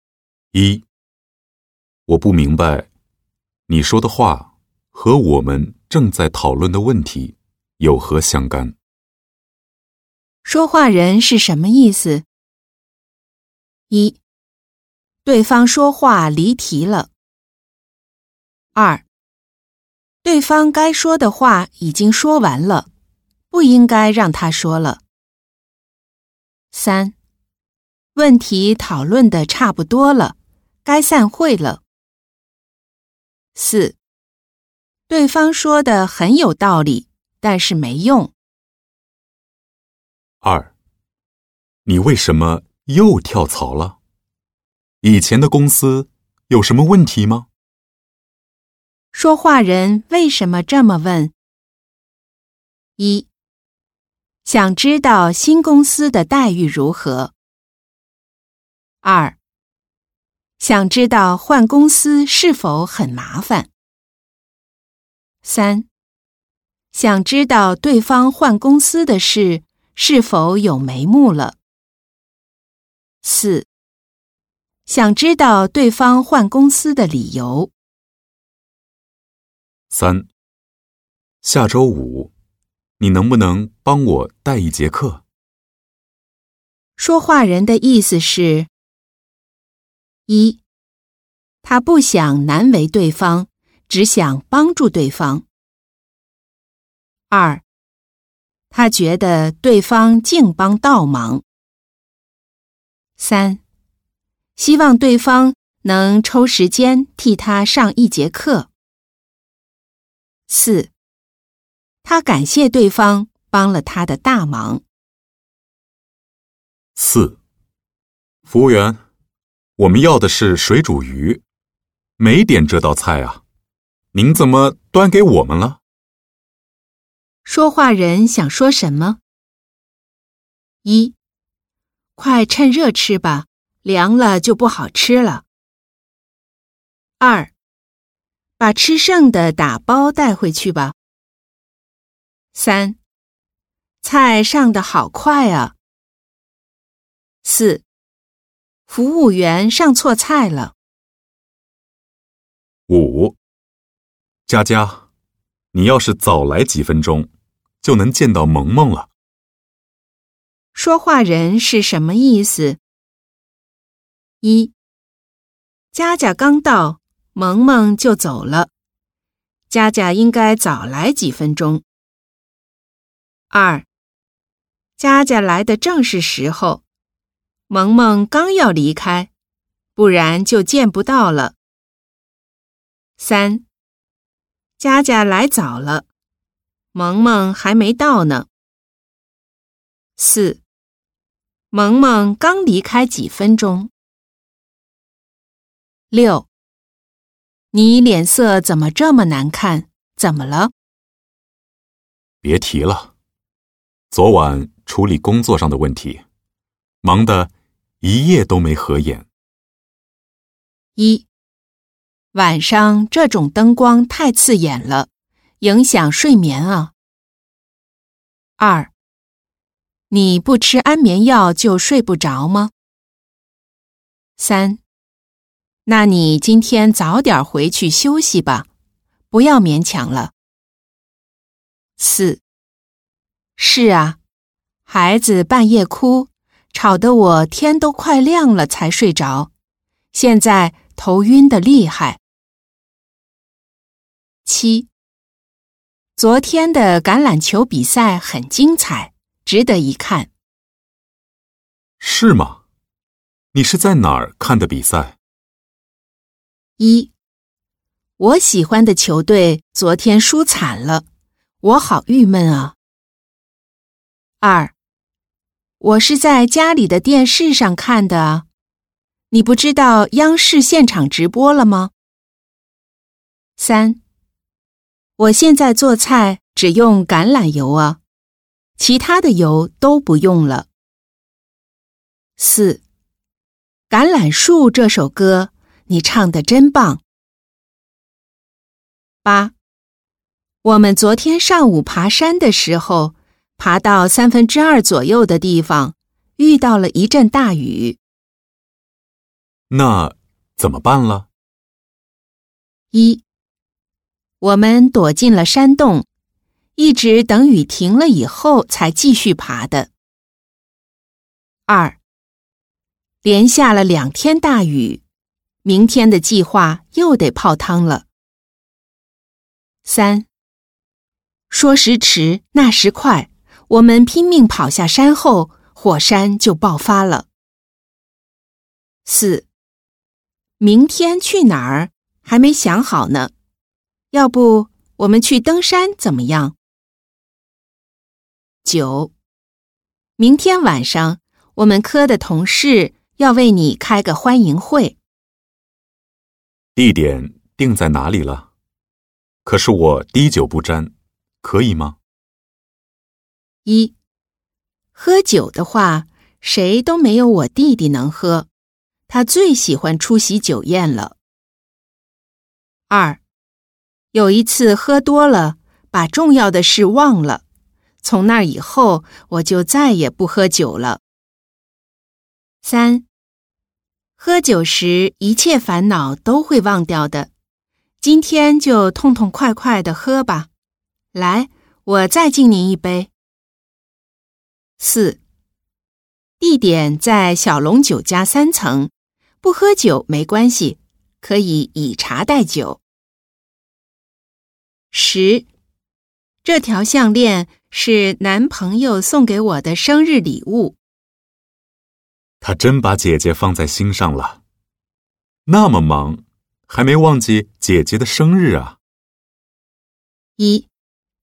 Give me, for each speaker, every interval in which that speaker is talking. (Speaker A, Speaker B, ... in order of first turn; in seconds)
Speaker A: 0.5-0.8, 2.1-2.9, 3.7-8.8, 40.4-40.7, 41.9-44.0, 45.0-47.5, 79.9-80.3, 81.4-82.3, 83.0-85.2, 117.0-117.4, 118.5-119.0, 119.8-121.4, 122.2-123.4, 124.1-125.8, 152.9-153.4, 154.5-155.0, 155.7-157.3, 157.8-159.1, 202.4-203.1, 204.1-206.2, 207.0-207.5, 208.0-209.3, 252.0-252.6, 253.5-255.2, 299.7-301.3, 346.8-348.5, 349.4-352.0, 402.4-404.4, 405.5-408.8
Speaker B: 10.4-12.3, 13.9-14.2, 15.2-17.1, 18.8-19.0, 20.2-22.9, 23.5-25.0, 26.7-27.1, 28.1-31.8, 33.5-34.0, 35.1-38.3, 49.1-51.3, 53.0-53.3, 54.5-57.3, 59.0-59.4, 60.6-63.7, 65.4-65.9, 66.9-71.6, 73.2-73.7, 74.9-77.7, 87.0-88.7, 90.3-90.6, 91.6-95.5, 97.3-97.6, 98.7-101.4, 103.2-103.6, 104.6-108.7, 110.5-110.9, 112.0-114.8, 127.5-129.2, 130.8-131.2, 132.2-135.4, 137.2-137.5, 138.6-140.9, 142.5-143.0, 144.0-145.8, 147.4-147.8, 148.9-150.7, 160.7-162.8, 164.4-164.7, 165.9-168.7, 169.7-171.8, 173.5-173.9, 175.0-176.8, 177.7-179.3, 180.0-181.6, 183.2-183.6, 184.8-186.1, 186.9-188.5, 190.2-190.6, 191.7-193.9, 196.1-196.5, 197.7-200.7, 211.0-211.3, 212.3-215.1, 215.6-216.9, 218.6-218.9, 220.1-222.7, 224.4-224.8, 225.9-228.7, 229.3-230.3, 232.0-232.4, 233.6-234.2, 234.9-239.5, 240.1-242.2, 244.4-244.9, 246.2-250.3, 256.8-257.1, 258.2-261.1, 261.6-262.8, 264.4-264.7, 265.8-268.5, 269.3-271.9, 273.6-274.0, 275.2-278.0, 278.8-280.7, 282.4-282.8, 283.9-287.0, 289.2-289.5, 290.6-298.0, 302.9-303.2, 304.4-306.1, 306.8-309.9, 311.7-312.0, 313.2-315.0, 315.6-318.1, 319.9-320.3, 321.5-327.3, 329.1-329.5, 330.6-333.3, 334.1-336.6, 338.6-339.1, 340.2-345.0, 353.6-353.9, 354.9-358.5, 359.1-361.2, 362.9-363.2, 364.1-367.4, 368.0-371.0, 372.6-373.1, 374.2-377.3, 378.0-380.5, 381.1-383.1, 384.8-385.2, 386.4-388.9, 389.4-392.8, 394.9-395.5, 396.4-400.8, 410.4-410.7